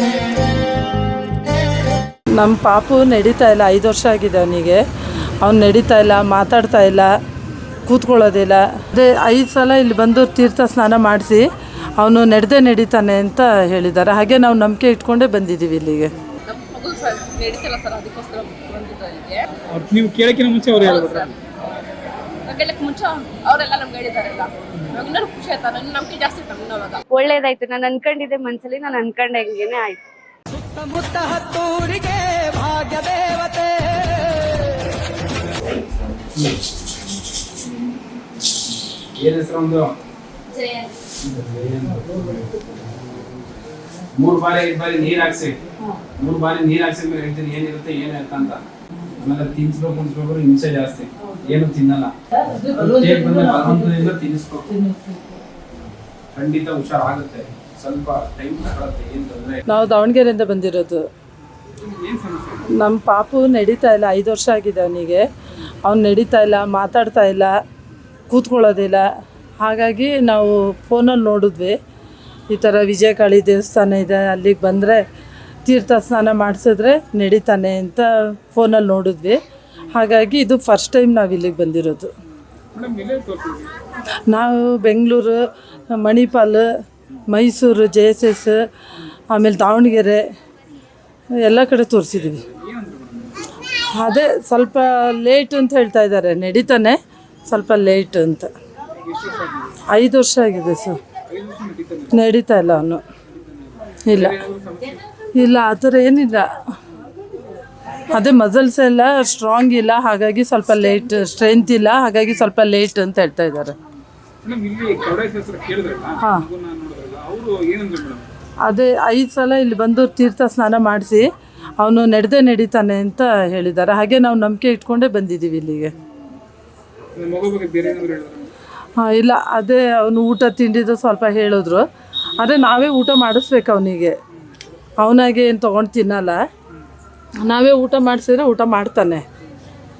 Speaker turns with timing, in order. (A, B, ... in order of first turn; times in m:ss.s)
0:02.4-0:04.8 A
0:05.4-0:07.1 A
0:07.8-0:16.1 A
0:16.4-0:19.5 B
0:19.7-0:21.3 C
0:20.8-0:21.4 B
0:22.4-0:27.0 B
0:27.1-0:30.0 D
0:39.2-0:39.9 E
0:41.2-0:42.8 E
0:44.2-0:45.6 E
0:46.2-0:48.6 E
0:49.2-0:52.1 E
0:52.5-0:54.1 A
0:52.7-0:54.7 E
0:54.7-0:55.3 A
0:56.3-0:59.6 E
0:59.7-1:01.0 A
1:01.8-1:02.6 C
1:02.7-1:05.2 A
1:05.8-1:07.5 A
1:08.3-1:09.0 A
1:09.6-1:11.7 A
1:12.5-1:15.0 A
1:15.6-1:19.4 A
1:19.9-1:22.1 A
1:22.7-1:23.8 C
1:24.3-1:26.7 A
1:27.3-1:28.6 A
1:29.3-1:30.2 A
1:31.4-1:32.4 A
1:32.4-1:33.5 C
1:33.9-1:38.5 A
1:39.0-1:39.8 C
1:39.9-1:41.0 A
1:41.3-1:42.2 C
1:42.1-1:43.0 A
1:43.3-1:45.0 C
1:44.0-1:44.4 A
1:45.4-1:46.5 A
1:48.1-1:53.8 A
1:54.4-1:58.3 C
1:56.2-1:56.5 A
1:58.6-2:01.3 A
2:01.8-2:05.9 A
2:07.1-2:08.5 C
2:09.0-2:14.2 A
2:15.0-2:16.4 A
2:17.4-2:19.2 A